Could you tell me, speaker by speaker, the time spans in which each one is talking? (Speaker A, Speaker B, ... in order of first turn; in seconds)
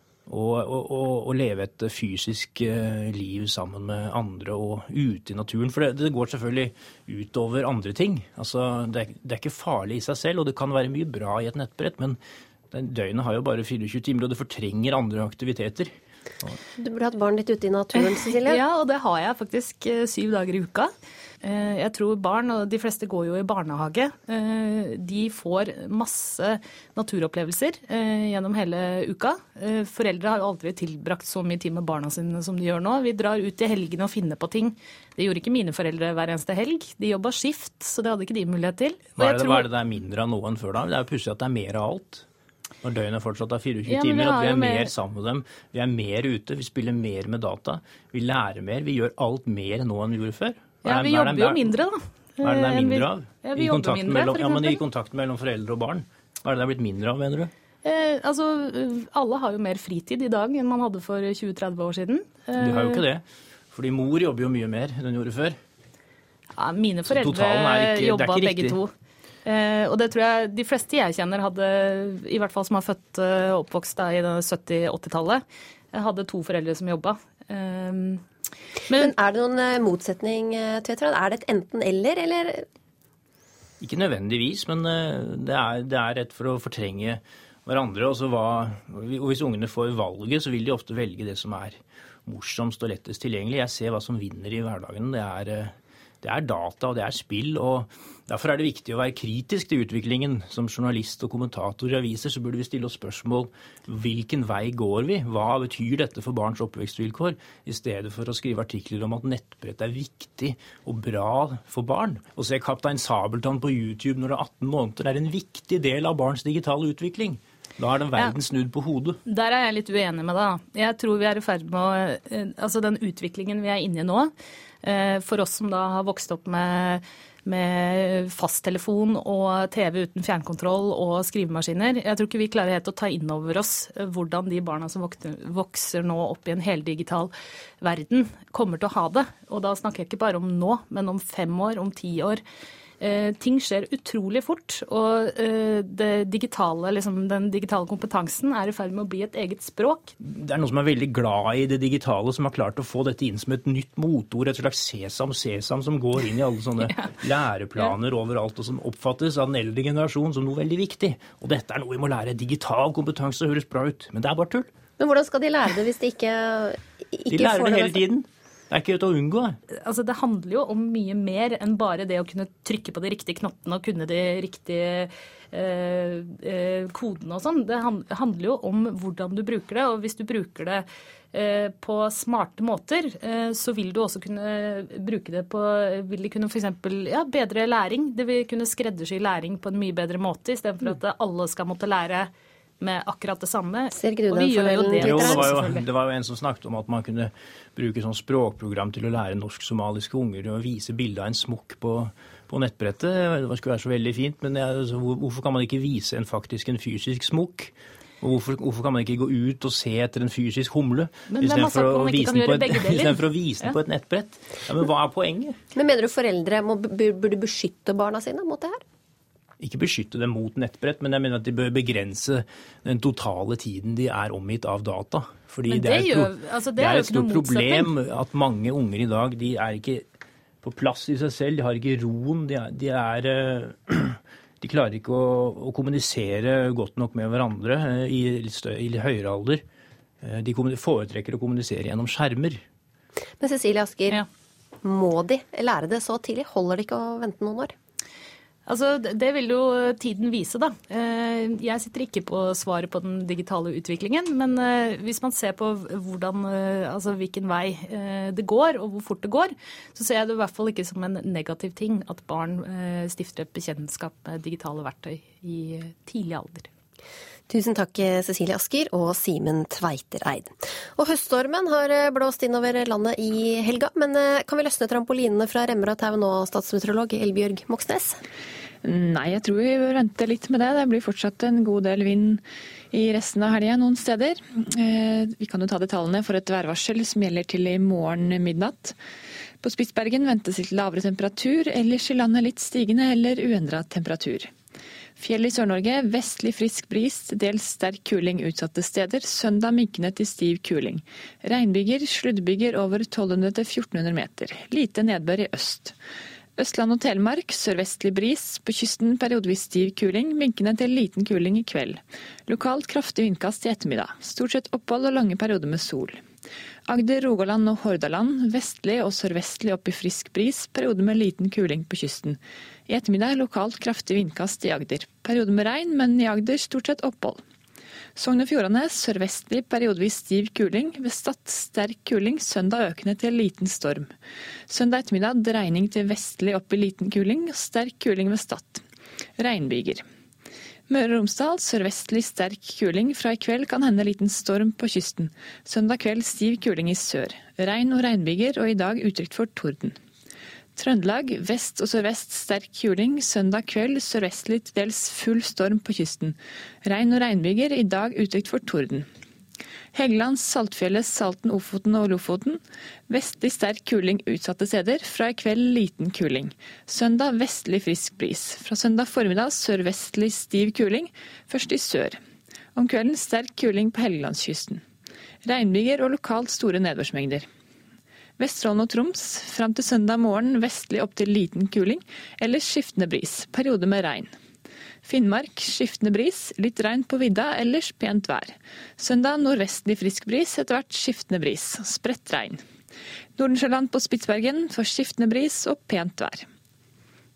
Speaker A: 0.3-12.2, 12.7-15.9, 39.2-42.2, 42.8-51.7, 52.4-57.5, 62.6-65.6, 67.1-68.8, 83.8-119.2, 150.2-164.7, 167.3-169.6, 195.0-215.6, 219.6-230.1, 230.6-239.6, 240.2-242.6
Speaker B: 16.8-18.6, 78.9-82.7, 165.0-168.0, 193.9-195.7, 215.8-218.8, 243.4-244.2, 244.8-247.7, 267.5-278.2
Speaker C: 18.1-20.9, 21.4-39.7, 43.9-44.9, 50.8-54.8, 57.8-63.0, 66.6-68.9, 69.5-78.2, 119.3-124.3, 124.8-142.4, 143.0-150.1, 156.8-157.2, 169.8-195.9, 211.3-213.8, 225.7-227.9, 248.7-266.7
Speaker D: 278.8-289.0, 289.6-294.5, 295.2-305.9, 306.6-316.2, 316.9-327.4, 328.2-334.1, 334.7-338.8, 339.4-340.0, 340.9-350.0, 350.8-359.1, 359.9-372.2, 372.8-374.8, 375.4-377.5, 378.4-384.3, 385.0-392.6, 393.4-396.5